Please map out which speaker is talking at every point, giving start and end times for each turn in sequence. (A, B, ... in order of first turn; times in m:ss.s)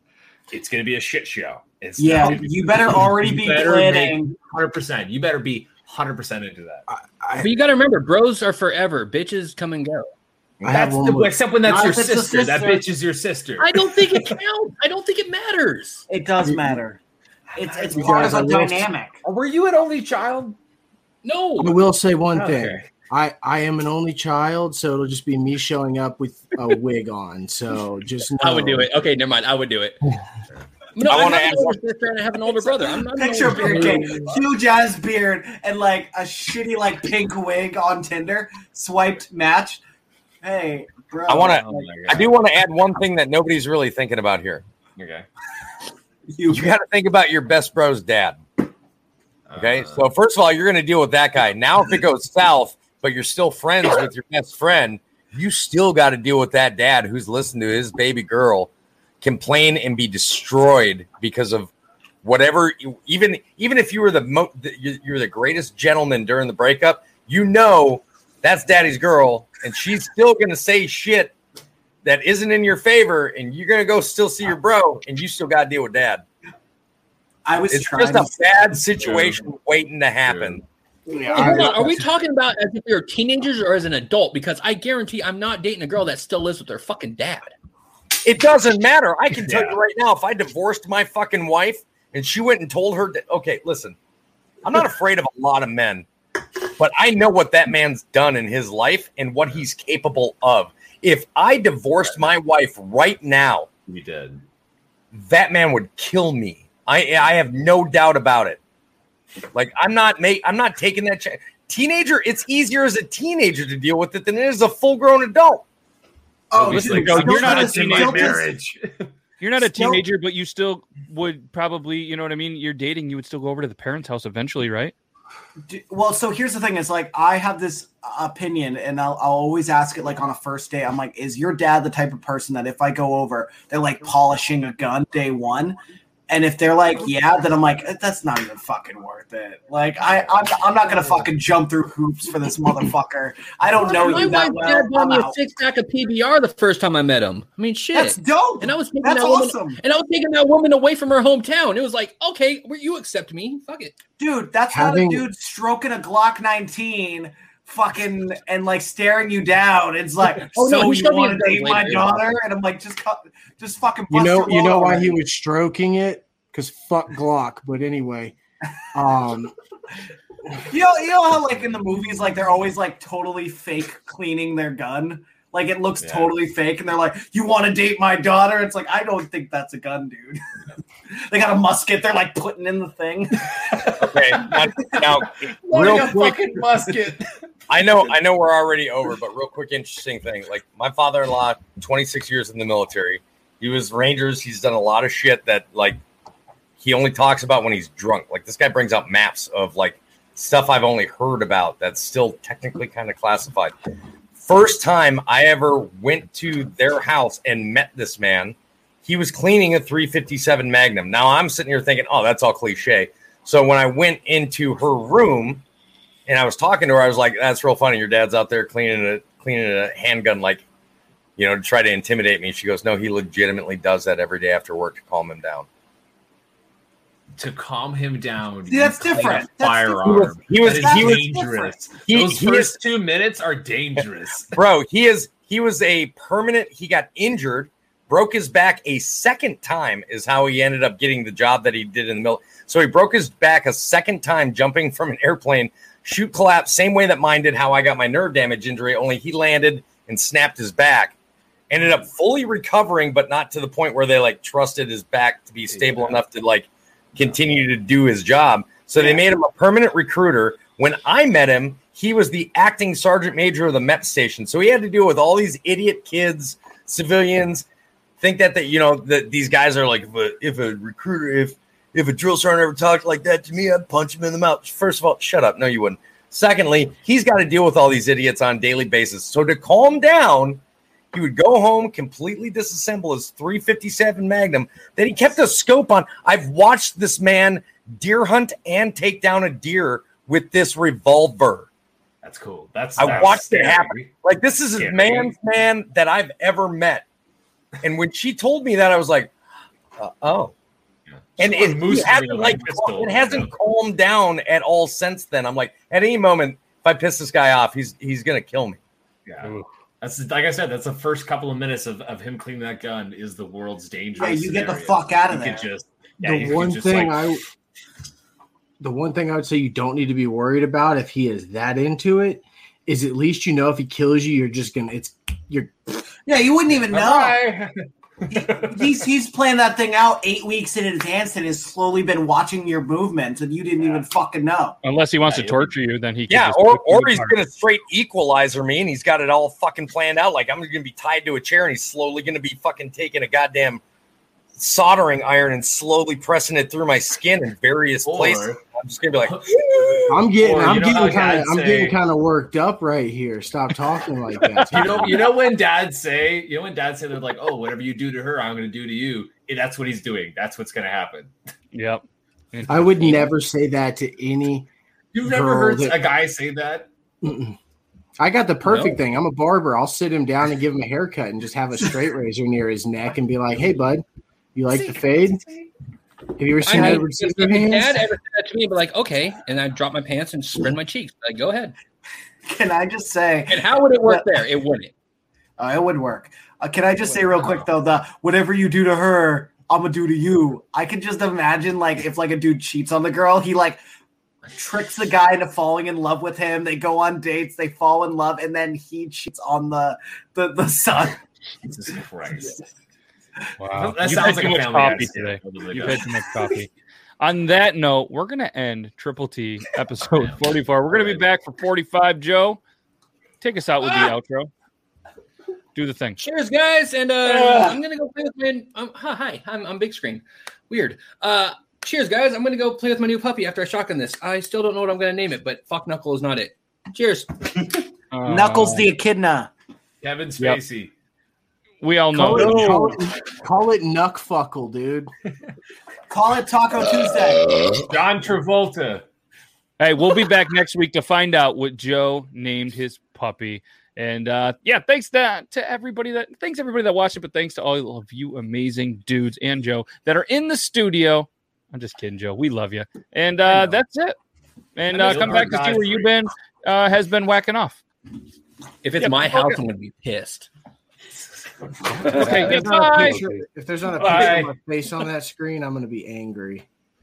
0:00.5-0:06.8 A
0:02.0-0:04.3 B
0:06.9-0:07.5 C
0:07.4-0:10.1 D
0:10.6-0:11.3 C
0:10.6-0:14.2 A
0:11.6-0:12.8 B
0:13.6-0:16.0 D
0:16.1-0:17.0 B
0:16.5-0:16.7 C
0:17.6-0:19.2 B
0:17.6-0:18.4 A
0:17.9-0:18.9 C
0:19.2-0:20.6 A
0:21.2-0:21.8 D
0:21.6-0:28.9 C
0:22.3-0:22.8 A
0:28.4-0:30.0 D
0:30.9-0:34.3 D
0:31.0-0:31.8 E
0:33.1-0:39.8 B
0:40.4-0:41.9 B
0:41.3-0:44.6 E
0:41.4-0:42.3 A
0:45.0-0:45.3 A
0:46.3-0:46.7 B
0:46.5-0:48.4 E
0:49.5-0:50.0 A
0:49.6-0:58.7 E
0:59.2-1:01.7 E
1:02.2-1:11.3 E
1:12.0-1:16.2 E
1:17.4-1:18.3 B
1:17.7-1:20.6 E
1:19.0-1:19.5 A
1:20.3-1:20.6 A
1:21.1-1:22.1 C
1:21.3-1:27.5 D
1:28.2-1:34.0 E
1:34.6-1:36.0 E
1:36.7-1:43.7 E
1:43.9-1:44.4 A
1:45.1-1:48.6 E
1:49.5-1:55.6 E
1:56.5-1:58.5 B
1:56.5-1:59.1 A
1:56.7-1:58.4 F
1:59.4-2:04.9 F
1:59.6-2:00.0 B
2:05.7-2:15.8 B
2:16.3-2:25.4 B
2:23.8-2:34.0 D
2:27.9-2:29.8 B
2:34.2-2:45.2 B
2:34.7-2:35.3 C
2:40.4-2:42.3 D
2:44.1-2:48.4 C
2:48.9-2:49.5 C
2:50.7-3:00.4 B
2:56.0-2:56.3 A
3:01.3-3:03.5 B
3:04.0-3:06.4 E
3:04.3-3:04.9 A
3:05.6-3:07.2 A
3:07.7-3:16.0 E
3:16.8-3:23.7 E
3:24.4-3:35.6 E
3:36.3-3:40.6 E
3:41.4-3:45.6 E
3:47.4-3:54.6 A
3:48.7-3:51.8 B
3:50.0-3:51.3 E
3:52.0-3:52.8 E
3:54.5-4:11.1 E
4:11.7-4:27.6 E
4:15.7-4:16.2 A
4:28.2-4:40.6 E
4:41.1-4:51.7 E
4:52.2-4:54.1 A
4:53.0-4:57.0 E
4:54.8-4:55.3 A
4:57.8-4:59.3 E
5:00.0-5:00.5 E
5:01.1-5:03.5 A
5:01.4-5:08.8 E
5:09.2-5:17.3 A
5:14.2-5:15.7 B
5:16.2-5:17.4 C
5:18.8-5:25.7 C
5:26.3-5:27.4 B
5:26.7-5:27.7 A
5:28.3-5:28.9 A
5:28.3-5:34.8 B
5:33.8-5:34.0 A
5:34.8-5:37.4 F
5:35.3-5:35.7 A
5:36.3-5:43.8 E
5:44.6-5:49.4 E
5:48.0-5:48.6 A
5:49.2-5:52.0 A
5:50.1-5:55.2 C
5:54.5-5:54.8 F
5:54.7-6:01.3 A
6:01.7-6:03.3 F
6:02.7-6:04.7 C
6:05.1-6:06.9 A
6:05.2-6:06.0 C
6:07.2-6:07.6 C
6:08.2-6:15.4 C
6:08.6-6:09.0 D
6:16.4-6:18.1 C
6:16.6-6:21.8 D
6:22.5-6:24.3 B
6:23.5-6:24.9 D
6:25.6-6:33.8 B
6:27.3-6:27.6 A
6:34.5-6:41.2 B
6:41.6-6:42.6 A
6:43.6-6:52.6 F
6:43.7-6:46.1 A
6:50.0-6:51.2 A
6:53.4-6:54.5 F
6:53.8-6:54.1 D
6:55.7-6:56.2 F
6:56.2-7:07.6 D
7:08.1-7:08.8 F
7:08.3-7:09.5 B
7:10.0-7:10.9 A
7:11.8-7:13.0 F
7:12.1-7:15.1 C
7:12.3-7:12.8 A
7:16.1-7:17.6 B
7:17.8-7:19.0 A
7:19.8-7:34.2 F
7:34.8-7:37.8 F
7:34.9-7:36.1 A
7:38.8-7:40.5 D
7:39.0-7:39.6 F
7:41.9-7:42.4 A
7:42.0-7:46.6 C
7:42.1-7:43.4 F
7:44.0-7:44.5 A
7:44.0-7:44.4 F